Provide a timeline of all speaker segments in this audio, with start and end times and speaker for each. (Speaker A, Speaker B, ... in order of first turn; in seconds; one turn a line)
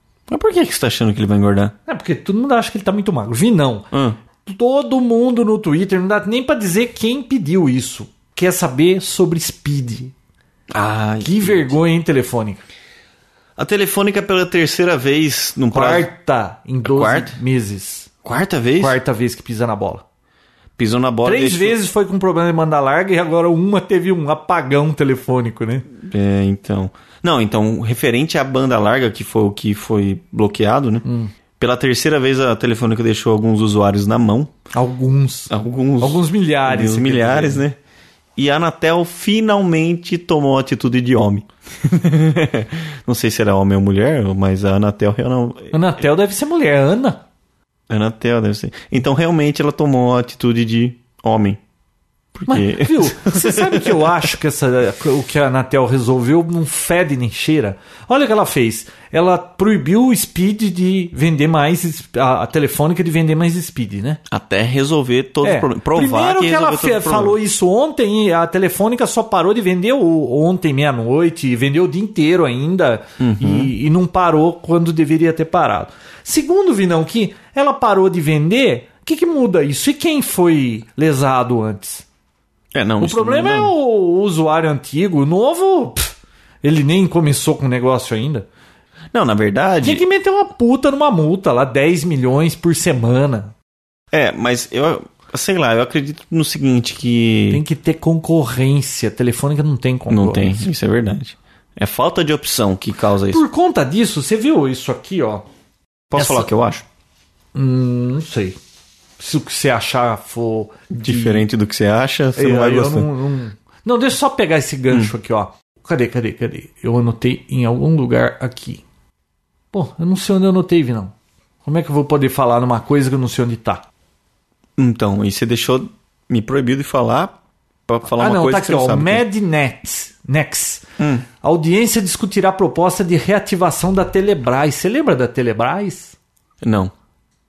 Speaker A: 0.3-1.7
Speaker B: 1.9-3.9
Speaker A: 3.9-4.2
Speaker B: 4.4-10.1
Speaker A: 10.7-11.7
Speaker B: 11.2-12.6
Speaker A: 13.6-16.1
Speaker B: 15.7-18.1
Speaker A: 16.8-17.4
Speaker A: 18.2-19.0
Speaker B: 18.8-20.0
Speaker A: 20.8-21.8
Speaker B: 21.2-25.9
Speaker A: 26.0-31.0
Speaker B: 31.0-31.3
Speaker A: 31.6-34.5
Speaker B: 34.7-37.6
Speaker A: 35.5-37.8
Speaker A: 38.4-45.8
Speaker B: 45.7-47.2
Speaker A: 47.9-51.6
Speaker A: 52.3-54.1
Speaker B: 52.5-64.2
Speaker A: 64.3-67.4
Speaker B: 65.4-82.0
Speaker A: 73.2-73.7
Speaker A: 82.7-83.7
Speaker B: 83.0-88.5
Speaker A: 89.1-90.0
Speaker B: 89.8-93.5
Speaker A: 94.1-97.6
Speaker B: 97.5-100.7
Speaker A: 100.1-103.4
Speaker B: 103.3-105.4
Speaker A: 106.1-106.8
Speaker B: 106.2-106.5
Speaker B: 107.5-108.6
Speaker B: 109.2-111.5
Speaker A: 110.9-113.1
Speaker B: 112.3-118.8
Speaker B: 119.7-121.1
Speaker B: 121.6-123.9
Speaker A: 124.8-129.2
Speaker B: 128.0-130.8
Speaker A: 131.0-131.2
Speaker B: 131.4-136.1
Speaker A: 136.6-136.9